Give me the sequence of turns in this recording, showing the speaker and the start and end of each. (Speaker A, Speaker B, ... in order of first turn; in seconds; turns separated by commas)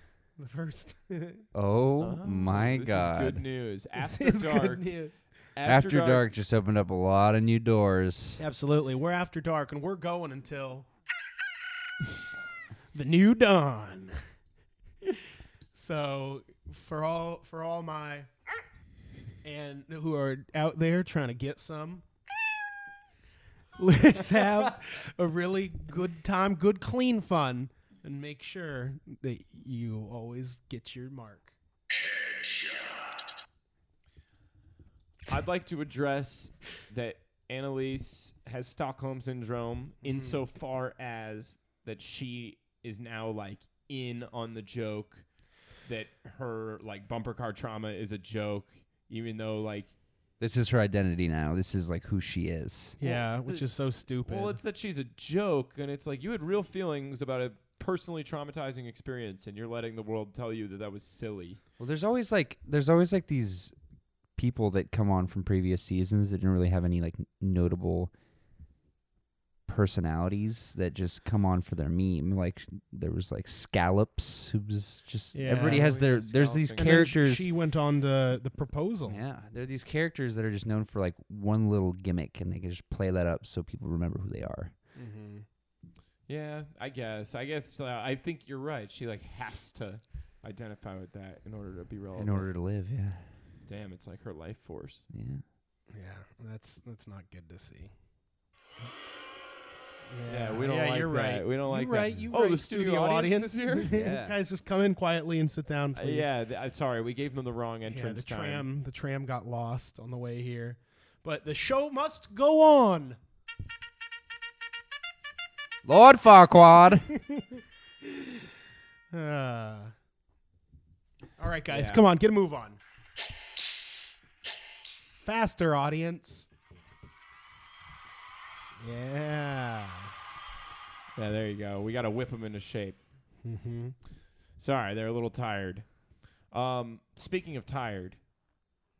Speaker A: 0.4-1.4, Speaker B: 1.5-3.4, Speaker C: 2.0-4.9, Speaker A: 4.0-5.2, Speaker C: 5.5-6.2, Speaker B: 5.6-8.4, Speaker A: 8.4-10.9, Speaker A: 12.9-14.2, Speaker A: 15.7-18.3, Speaker A: 19.4-22.0, Speaker A: 23.8-31.6, Speaker C: 35.3-45.2, Speaker A: 40.0-40.4, Speaker C: 45.8-49.9, Speaker B: 50.4-53.0, Speaker A: 53.0-54.6, Speaker C: 53.0-53.7, Speaker C: 54.2-61.6, Speaker B: 61.8-63.7, Speaker B: 64.4-68.1, Speaker B: 69.7-77.5, Speaker A: 75.3-76.0, Speaker C: 75.5-77.1, Speaker A: 76.8-79.2, Speaker B: 79.1-84.7, Speaker A: 84.9-85.5, Speaker C: 86.3-92.5, Speaker B: 92.1-93.3, Speaker C: 93.7-95.1, Speaker B: 95.1-95.4, Speaker A: 95.9-97.9, Speaker A: 100.1-106.3, Speaker C: 100.2-103.9, Speaker B: 103.9-104.4, Speaker C: 105.9-108.7, Speaker A: 107.9-113.2, Speaker B: 115.8-117.1, Speaker A: 116.9-118.4, Speaker A: 119.1-119.9, Speaker A: 121.4-122.8, Speaker C: 121.7-122.0, Speaker A: 125.2-126.5, Speaker A: 128.8-130.1, Speaker C: 131.2-133.0, Speaker A: 133.4-133.9, Speaker C: 134.6-135.9, Speaker C: 136.5-138.2